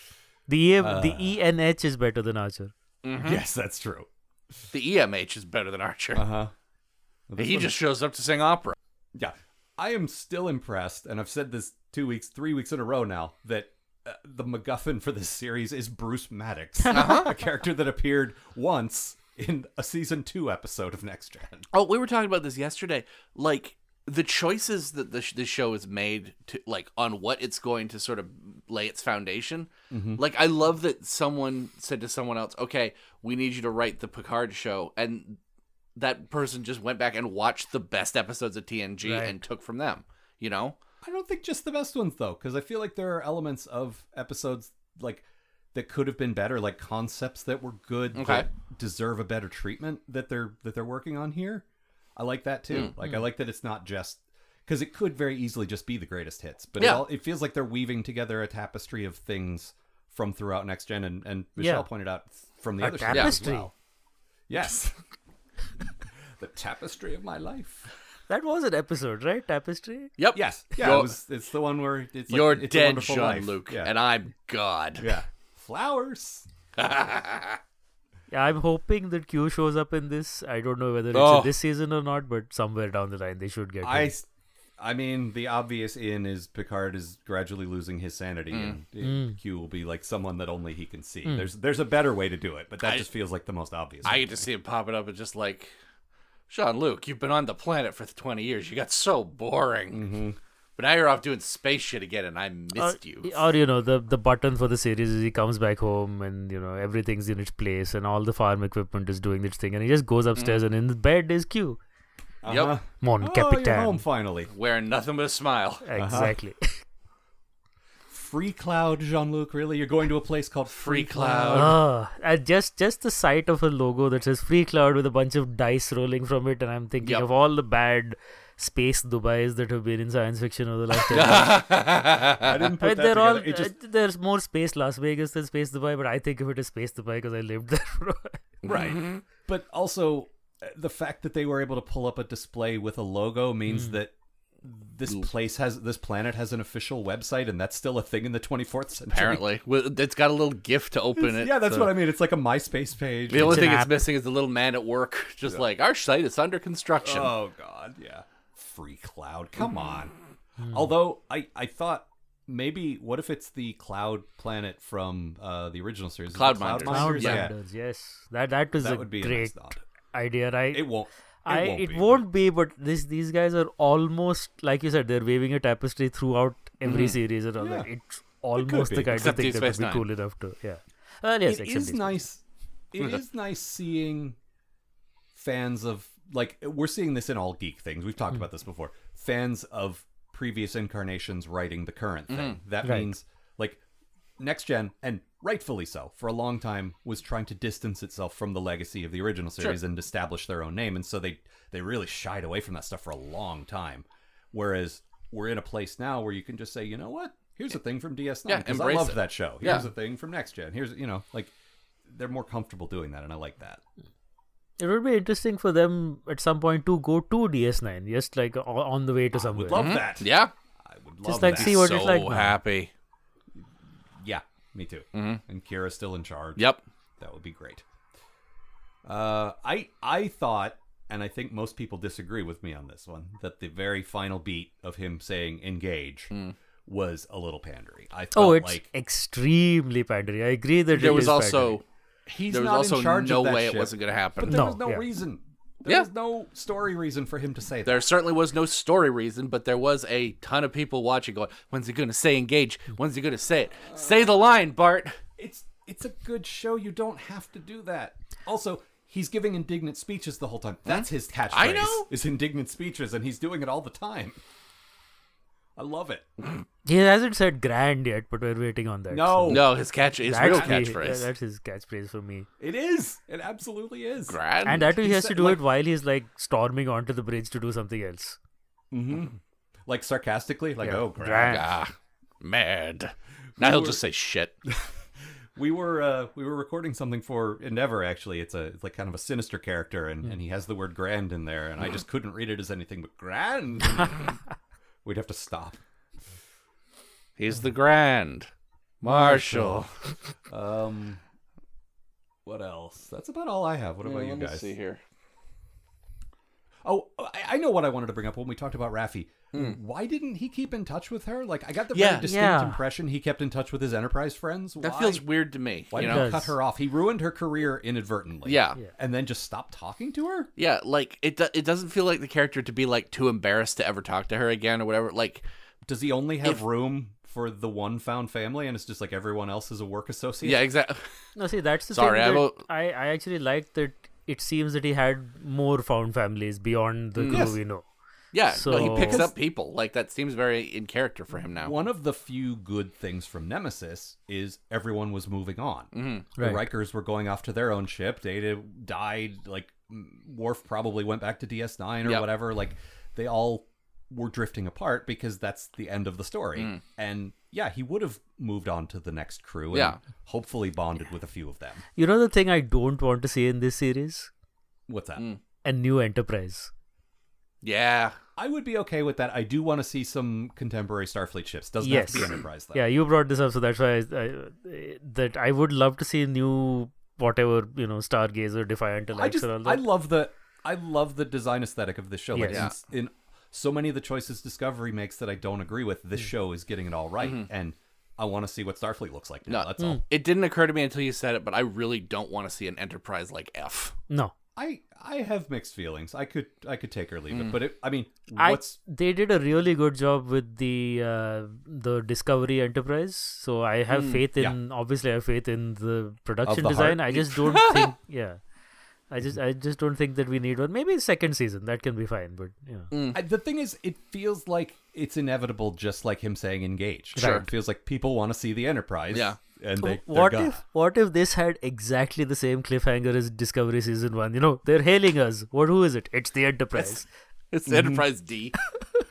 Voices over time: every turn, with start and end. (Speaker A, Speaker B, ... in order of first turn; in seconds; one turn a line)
Speaker A: 0.5-2.7
Speaker B: 0.8-1.4
Speaker C: 3.0-3.4
Speaker B: 3.2-4.1
Speaker C: 4.7-6.3
Speaker B: 6.1-6.5
Speaker B: 7.3-7.8
Speaker C: 7.4-8.8
Speaker B: 9.1-21.7
Speaker C: 16.9-17.3
Speaker C: 21.7-35.4
Speaker B: 29.9-30.2
Speaker C: 36.0-40.8
Speaker A: 39.0-39.3
Speaker B: 41.0-51.6
Speaker C: 48.1-48.5
Speaker B: 52.1-63.7
Speaker C: 56.8-57.0
Speaker A: 61.6-61.9
Speaker A: 62.8-63.7
Speaker B: 64.5-65.0
Speaker B: 66.4-67.9
Speaker A: 68.3-70.1
Speaker C: 70.2-71.1
Speaker B: 70.3-73.9
Speaker C: 72.3-75.1
Speaker B: 75.0-76.5
Speaker C: 76.8-77.6
Speaker A: 78.3-84.1
Speaker C: 81.1-81.5
Speaker B: 83.8-84.2
Speaker B: 84.8-94.4
Speaker C: 88.5-88.8
Speaker A: 89.0-89.4
Speaker A: 91.2-91.5
Speaker C: 94.0-95.7
Speaker C: 96.5-100.0
Speaker B: 99.9-100.4
Speaker C: 100.8-103.4
Speaker A: 102.8-111.8
Speaker C: 110.3-110.6
Speaker B: 112.4-114.5
Speaker C: 112.4-112.8
Speaker A: 113.0-114.0
Speaker C: 114.5-115.9
Speaker A: 115.8-116.8
Speaker B: 116.0-116.3
Speaker B: 118.1-121.7
Speaker C: 120.7-121.8
Speaker A: 121.5-131.6
Speaker C: 131.1-132.7
Speaker B: 132.4-133.7
Speaker A: 132.8-138.4
Speaker C: 138.6-139.2
Speaker B: 138.6-149.4
Speaker A: 143.7-144.0
Speaker C: 149.1-151.9
Speaker B: 151.2-153.7
Speaker C: 153.3-157.3
Speaker A: 153.3-154.0
Speaker B: 157.0-160.1
Speaker A: 160.6-160.9
Speaker B: 160.7-167.5
Speaker C: 166.3-167.5
Speaker A: 166.8-182.2
Speaker B: 168.8-169.8
Speaker B: 170.7-172.2
Speaker C: 176.8-177.2
Speaker B: 177.6-177.9
Speaker B: 178.6-179.4
Speaker C: 179.1-180.0
Speaker B: 181.4-184.4
Speaker B: 185.3-193.8
Speaker C: 192.3-192.6
Speaker A: 192.8-193.1
Speaker B: 194.4-211.5
Speaker C: 208.5-209.9
Speaker B: 212.1-213.8
Speaker A: 214.8-219.9
Speaker B: 219.3-220.3
Speaker C: 219.7-220.5
Speaker B: 220.8-221.8
Speaker A: 221.2-222.5
Speaker C: 221.4-222.9
Speaker B: 224.2-226.6
Speaker C: 225.1-225.4
Speaker C: 226.6-226.8
Speaker B: 227.2-227.8
Speaker B: 229.0-236.3
Speaker B: 236.8-238.9
Speaker A: 238.3-241.8
Speaker C: 240.9-241.8
Speaker B: 242.3-248.0
Speaker C: 242.5-244.7
Speaker A: 244.5-245.0
Speaker C: 247.8-255.2
Speaker B: 253.9-254.3
Speaker B: 255.4-264.4
Speaker C: 260.9-262.1
Speaker B: 265.8-266.3
Speaker A: 266.8-269.7
Speaker B: 269.1-269.7
Speaker C: 269.5-271.3
Speaker A: 270.3-272.5
Speaker B: 270.4-270.9
Speaker B: 272.6-275.6
Speaker C: 274.3-274.9
Speaker A: 274.6-278.4
Speaker B: 278.9-281.6
Speaker A: 280.8-281.7
Speaker C: 281.5-284.5
Speaker B: 283.6-284.0
Speaker B: 284.6-284.9
Speaker B: 285.5-294.4
Speaker B: 295.0-295.8
Speaker C: 297.4-298.5
Speaker C: 299.0-299.9
Speaker B: 299.0-299.8
Speaker B: 300.5-301.2
Speaker B: 302.4-304.7
Speaker C: 304.0-305.0
Speaker B: 306.8-315.2
Speaker C: 309.5-309.8
Speaker C: 311.9-312.2
Speaker A: 312.2-312.8
Speaker C: 314.8-316.4
Speaker B: 315.9-320.5
Speaker A: 316.0-316.5
Speaker C: 318.4-318.8
Speaker C: 320.6-325.4
Speaker B: 325.8-330.6
Speaker C: 330.4-331.0
Speaker A: 331.4-337.9
Speaker C: 331.9-332.6
Speaker C: 337.2-337.6
Speaker B: 337.3-337.6
Speaker C: 338.3-341.7
Speaker A: 338.5-339.2
Speaker B: 338.7-339.3
Speaker B: 341.6-361.8
Speaker C: 345.9-346.3
Speaker A: 346.4-346.6
Speaker C: 356.6-356.8
Speaker C: 359.7-360.0
Speaker A: 361.9-364.3
Speaker B: 364.9-365.2
Speaker A: 365.6-366.7
Speaker C: 367.6-368.1
Speaker B: 368.4-372.8
Speaker A: 371.8-379.9
Speaker B: 379.1-390.0
Speaker A: 382.3-382.7
Speaker C: 382.5-382.7
Speaker C: 387.2-387.5
Speaker C: 389.5-393.9
Speaker B: 394.6-398.8
Speaker C: 397.3-397.6
Speaker A: 398.4-408.4
Speaker C: 403.9-404.2
Speaker B: 406.4-407.6
Speaker C: 407.5-407.9
Speaker A: 409.1-412.9
Speaker C: 412.9-413.2
Speaker B: 413.1-420.6
Speaker C: 417.1-417.4
Speaker A: 417.2-417.4
Speaker C: 419.1-419.4
Speaker A: 419.8-427.1
Speaker C: 427.5-428.5
Speaker B: 427.7-428.1